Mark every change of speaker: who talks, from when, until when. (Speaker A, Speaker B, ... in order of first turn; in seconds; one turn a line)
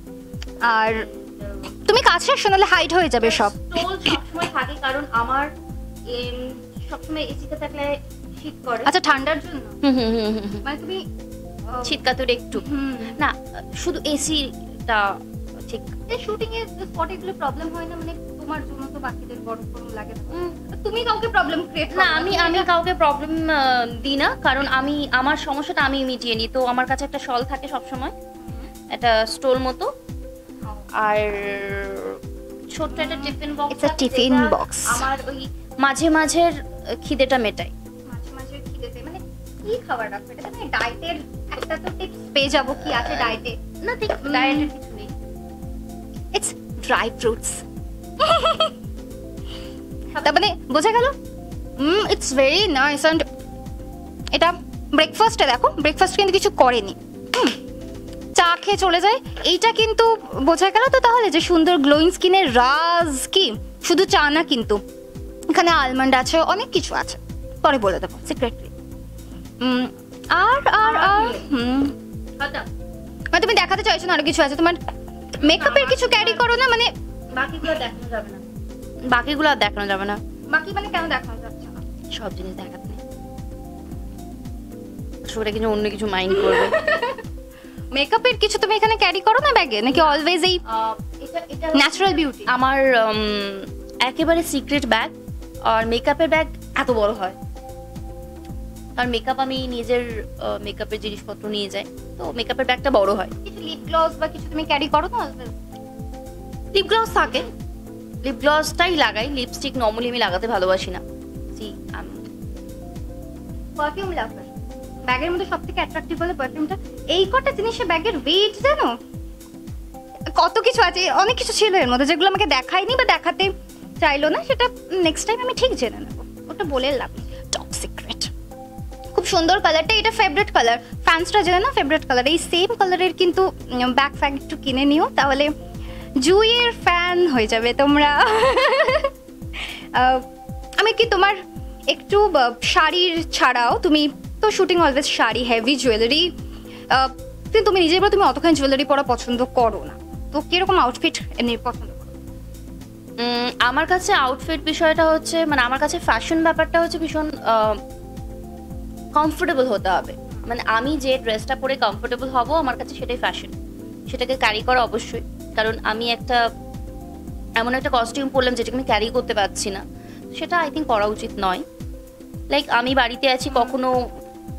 Speaker A: 0.6-1.1
Speaker B: 0.8-1.7
Speaker A: 1.9-3.6
Speaker B: 3.2-5.5
Speaker B: 6.1-8.9
Speaker A: 8.8-9.8
Speaker B: 9.8-10.6
Speaker A: 10.6-11.1
Speaker A: 11.7-12.0
Speaker B: 11.8-15.9
Speaker A: 12.6-13.2
Speaker A: 16.1-22.7
Speaker B: 21.9-28.1
Speaker A: 28.4-28.7
Speaker B: 28.9-29.9
Speaker B: 31.0-32.2
Speaker B: 32.7-37.7
Speaker A: 32.9-35.1
Speaker A: 38.1-43.6
Speaker B: 42.8-45.1
Speaker A: 44.2-44.7
Speaker A: 46.3-47.6
Speaker A: 48.2-48.7
Speaker A: 50.2-51.2
Speaker A: 51.8-53.3
Speaker A: 54.3-57.6
Speaker A: 58.4-64.8
Speaker A: 65.5-68.7
Speaker A: 69.6-71.9
Speaker B: 70.8-71.5
Speaker B: 72.4-72.7
Speaker A: 73.3-74.8
Speaker A: 75.4-76.9
Speaker B: 75.4-76.4
Speaker B: 77.3-78.4
Speaker B: 79.1-80.2
Speaker A: 80.5-81.8
Speaker B: 82.1-83.0
Speaker B: 85.2-86.7
Speaker A: 86.3-87.2
Speaker A: 87.9-90.6
Speaker B: 89.9-95.1
Speaker A: 91.7-92.5
Speaker B: 95.7-97.4
Speaker B: 99.0-103.3
Speaker A: 103.5-105.5
Speaker B: 106.7-107.5
Speaker B: 108.2-111.0
Speaker B: 111.5-112.2
Speaker A: 113.8-114.5
Speaker A: 115.1-119.0
Speaker A: 120.4-128.3
Speaker A: 129.2-135.5
Speaker A: 136.2-139.1
Speaker A: 139.9-140.3
Speaker A: 140.8-141.4
Speaker A: 141.9-146.3
Speaker A: 146.9-152.2
Speaker B: 153.2-157.8
Speaker B: 159.2-163.5
Speaker B: 164.1-166.4
Speaker B: 167.6-171.6
Speaker B: 172.5-174.1